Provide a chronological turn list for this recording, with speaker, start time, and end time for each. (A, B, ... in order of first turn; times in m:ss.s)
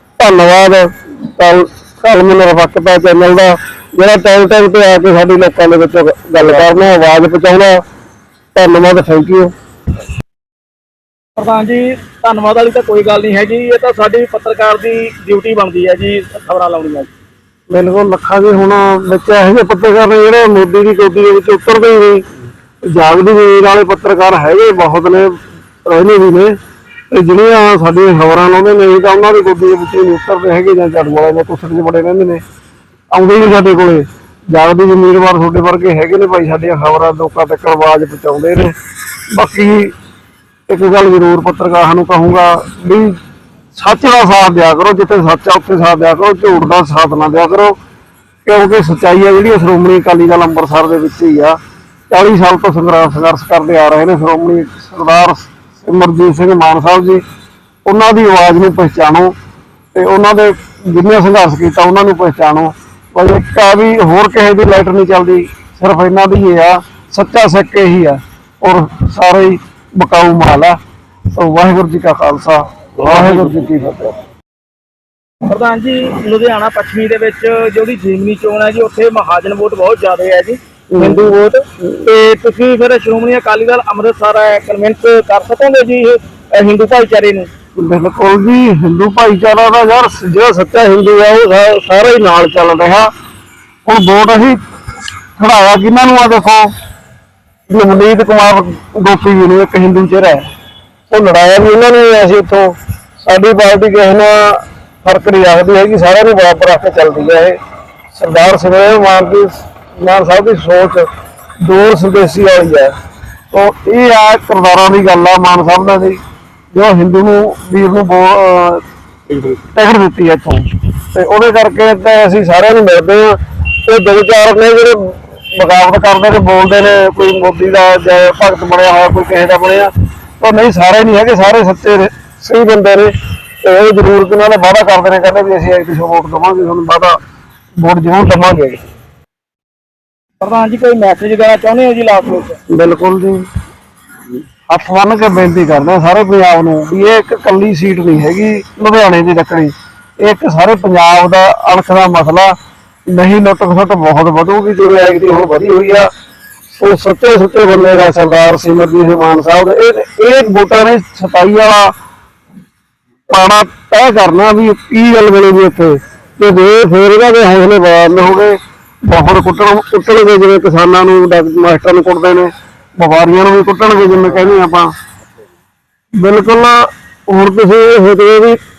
0:00.2-0:07.8 A
0:08.5-0:09.5 A
0:11.4-0:17.1 B
0:17.7-0:22.2 A
0:22.8-0:26.6 A
0:27.1-0:32.4 A
0:33.1-0:38.8 A
0:39.3-0:39.9 A
0:40.7-0:43.2 A
0:43.7-0:47.8 A
0:48.4-0:51.6 A
0:52.1-0:57.2 A
0:57.8-0:59.3 A
0:59.9-1:10.8 A
1:11.3-1:14.2 A
1:15.4-1:27.5 B
1:20.9-1:21.3 A
1:27.8-1:33.1 A
1:33.8-1:34.6 A
1:35.4-1:36.7 A
1:37.7-1:40.5 A
1:41.1-1:47.6 A
1:48.1-1:51.1 A
1:51.6-1:52.9 A
1:53.5-1:56.2 A
1:56.7-2:17.2 A
2:17.8-2:18.8 A
2:20.4-2:22.6 B
2:22.7-2:23.5 A
2:24.7-2:36.1 A
2:36.7-2:41.9 A
2:43.3-2:54.9 A
2:56.1-2:58.6 A